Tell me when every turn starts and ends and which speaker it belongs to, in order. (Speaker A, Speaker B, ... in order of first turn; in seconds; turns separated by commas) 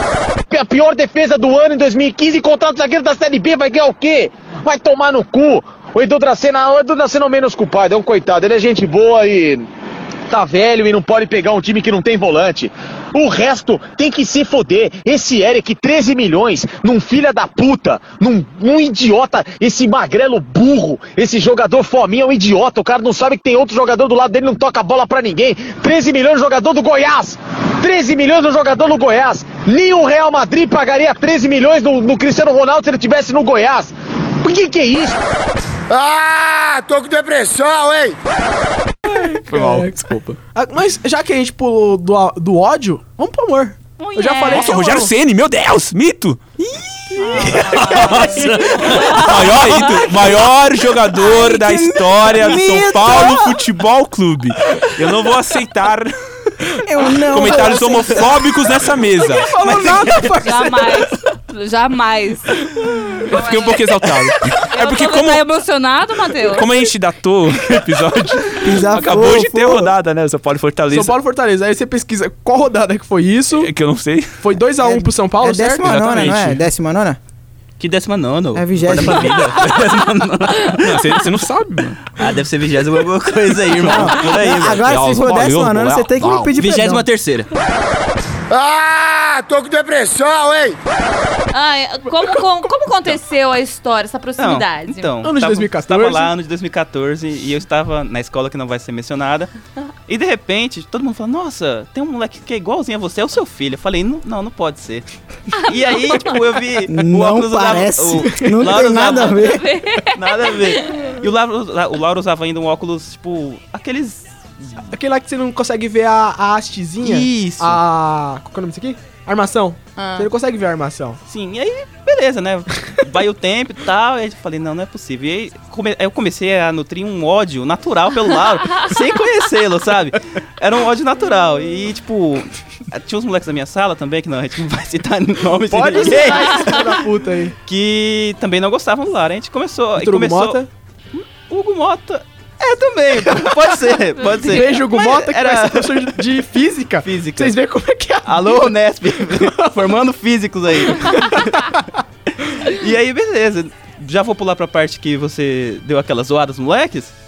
Speaker A: 0.5-9.7, Speaker A: 10.3-35.2, Speaker B: 35.9-38.2, Speaker C: 39.0-45.1, Speaker D: 39.1-40.3, Speaker E: 44.0-45.1, Speaker D: 44.4-46.4, Speaker E: 47.1-50.1, Speaker C: 47.2-48.5, Speaker D: 47.4-56.1, Speaker F: 48.0-49.3, Speaker G: 51.2-53.6, Speaker G: 56.8-58.5, Speaker D: 57.1-59.5, Speaker C: 59.2-61.1, Speaker F: 59.4-60.5, Speaker E: 60.4-62.7, Speaker E: 63.3-66.7, Speaker D: 63.3-65.4, Speaker D: 66.5-71.2, Speaker G: 68.6-69.9, Speaker C: 70.9-73.7, Speaker D: 73.5-74.5, Speaker C: 74.4-76.3, Speaker G: 74.8-77.2, Speaker D: 75.8-76.6, Speaker F: 77.8-81.2, Speaker G: 78.5-79.5, Speaker D: 79.1-79.9, Speaker D: 80.6-82.0, Speaker F: 82.1-85.1, Speaker G: 83.7-87.0, Speaker D: 84.5-86.5, Speaker F: 86.5-87.5, Speaker B: 88.5-90.8, Speaker E: 91.5-95.1, Speaker F: 94.4-99.5, Speaker C: 95.2-96.3, Speaker F: 100.1-109.6, Speaker G: 106.9-109.7, Speaker E: 109.3-111.0, Speaker F: 110.1-114.8, Speaker C: 114.9-121.2, Speaker F: 117.0-117.8, Speaker E: 120.0-120.3, Speaker F: 121.3-137.0, Speaker C: 135.7-137.5, Speaker F: 137.7-140.6, Speaker C: 140.0-140.7, Speaker F: 141.1-146.4, Speaker E: 144.2-144.6, Speaker C: 144.4-149.7, Speaker F: 147.0-147.6, Speaker F: 148.2-151.8, Speaker C: 150.9-151.4, Speaker F: 152.5-157.1